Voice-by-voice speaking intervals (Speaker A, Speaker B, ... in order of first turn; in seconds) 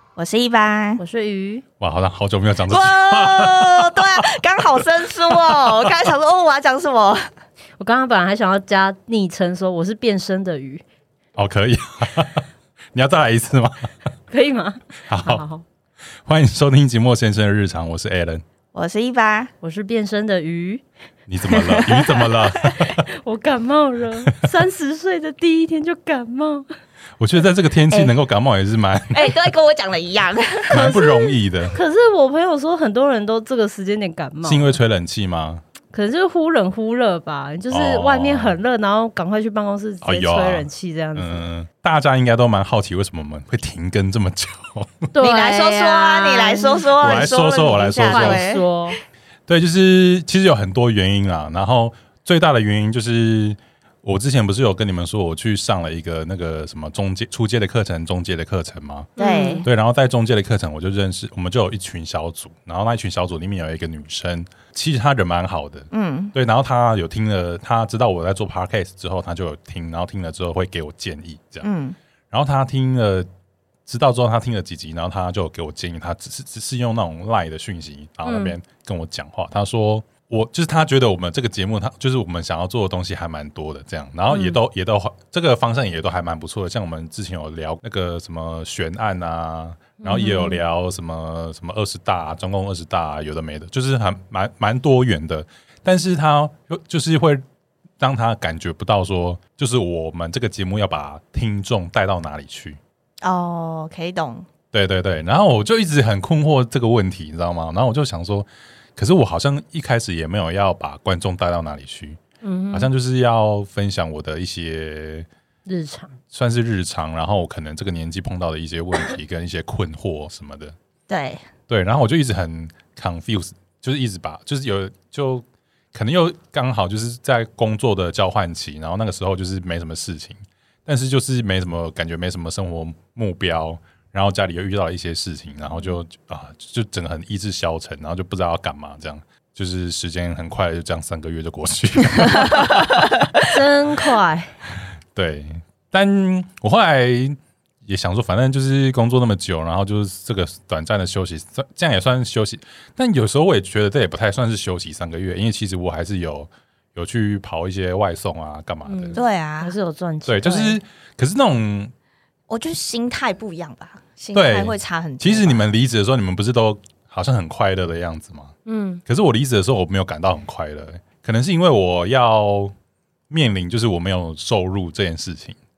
Speaker A: 0.1-1.0, 2.7-7.2, 18.7-19.5, 21.5-22.4, 29.1-31.0, 45.2-48.6, 59.2-59.6, 65.9-66.3, 71.6-72.0, 103.2-104.5, 121.1-121.4, 159.1-159.7, 162.5-165.6
Speaker B: 1.0-1.6, 7.8-10.8, 14.3-15.6, 19.6-20.8, 22.8-26.7, 30.8-34.8, 35.9-41.4, 45.1-46.9, 48.0-49.0, 59.2-59.7, 78.2-78.5, 84.3-84.6, 90.0-90.6, 112.4-112.9, 115.7-116.1, 143.4-144.5, 158.9-160.8, 168.6-169.0
Speaker C: 1.8-4.4, 5.3-5.9, 11.3-13.9, 15.1-15.4, 16.2-18.4, 21.3-23.1, 27.2-29.3, 30.7-31.8, 34.4-35.6, 37.7-38.6, 40.0-45.1, 47.0-48.4, 49.5-59.1, 59.6-71.7, 72.3-73.3, 73.8-97.4, 98.0-102.8, 104.7-112.2, 112.7-115.3, 116.3-120.7, 121.7-143.2, 145.1-159.2, 160.2-161.9, 164.3-168.5, 169.1-172.7, 173.3-175.6